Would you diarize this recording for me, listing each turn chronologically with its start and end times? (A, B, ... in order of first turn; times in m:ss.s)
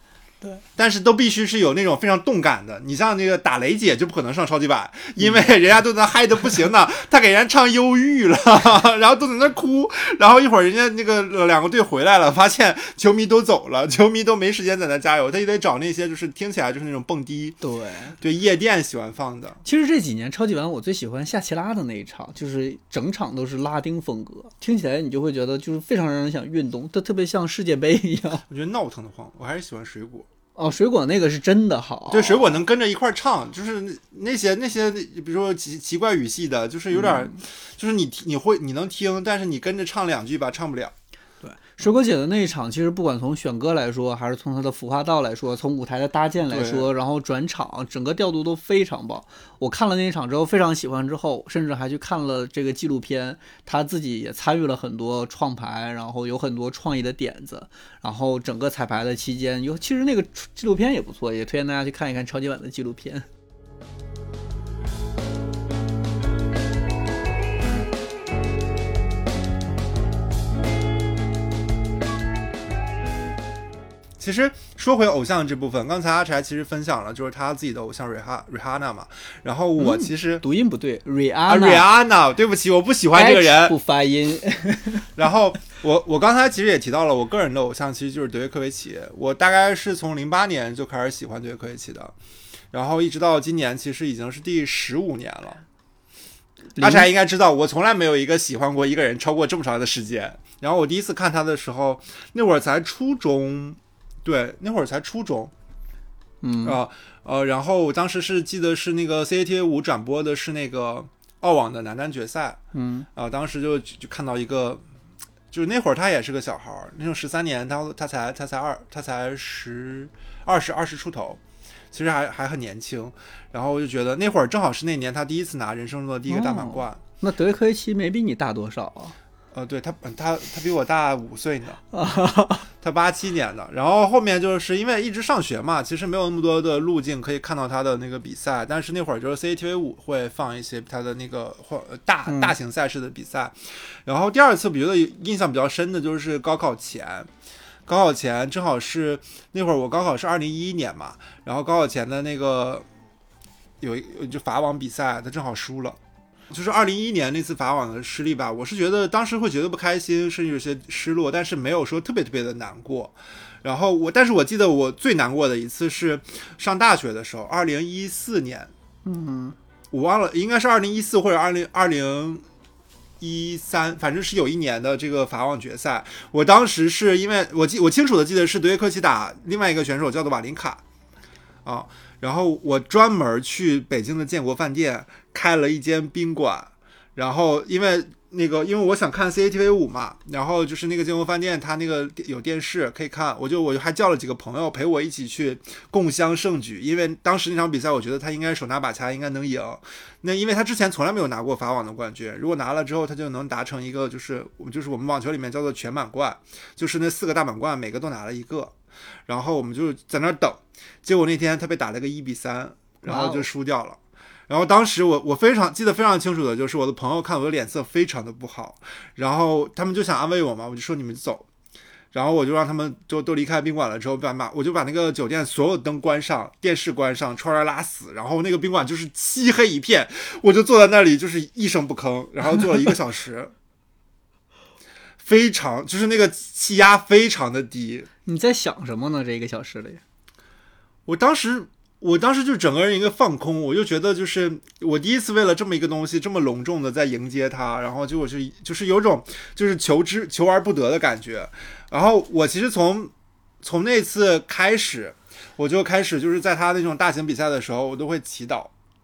0:00.8-0:17.6 A
0:17.6-0:18.2 B
0:18.2-0:19.6 A
0:19.6-0:28.4 B
0:28.5-0:30.3 A
0:30.6-0:32.6 B
0:32.1-0:40.9 A
0:36.9-0:37.3 B
0:41.4-1:03.3 B
0:46.5-0:46.9 A
1:14.2-1:20.4 A
1:19.8-1:21.9 B
1:21.5-1:23.8 A
1:23.1-1:25.1 B
1:25.2-1:32.1 A
1:32.7-1:35.6 A
1:36.8-1:37.1 B
1:36.8-1:45.5 A
1:46.4-1:46.8 B
1:46.6-1:52.6 A
1:52.7-1:53.1 B
1:53.2-1:54.8 A
1:55.5-2:01.4 A
2:01.9-2:07.0 A
2:06.3-2:09.2 B
2:09.5-2:11.8 A
2:11.9-2:12.7 B
2:12.8-2:27.3 A
2:22.3-2:22.6 B
2:27.9-2:32.9 A
2:33.8-2:36.0 A
2:36.5-2:48.7 A
2:49.0-2:49.6 B
2:49.9-2:52.4 A
2:53.2-3:00.8 A
3:01.6-3:28.8 A
3:29.3-3:41.5 A
3:33.0-3:33.5 B
3:42.1-3:53.5 A
3:55.2-3:58.1 A
3:58.2-4:00.0 B
4:01.1-4:18.7 A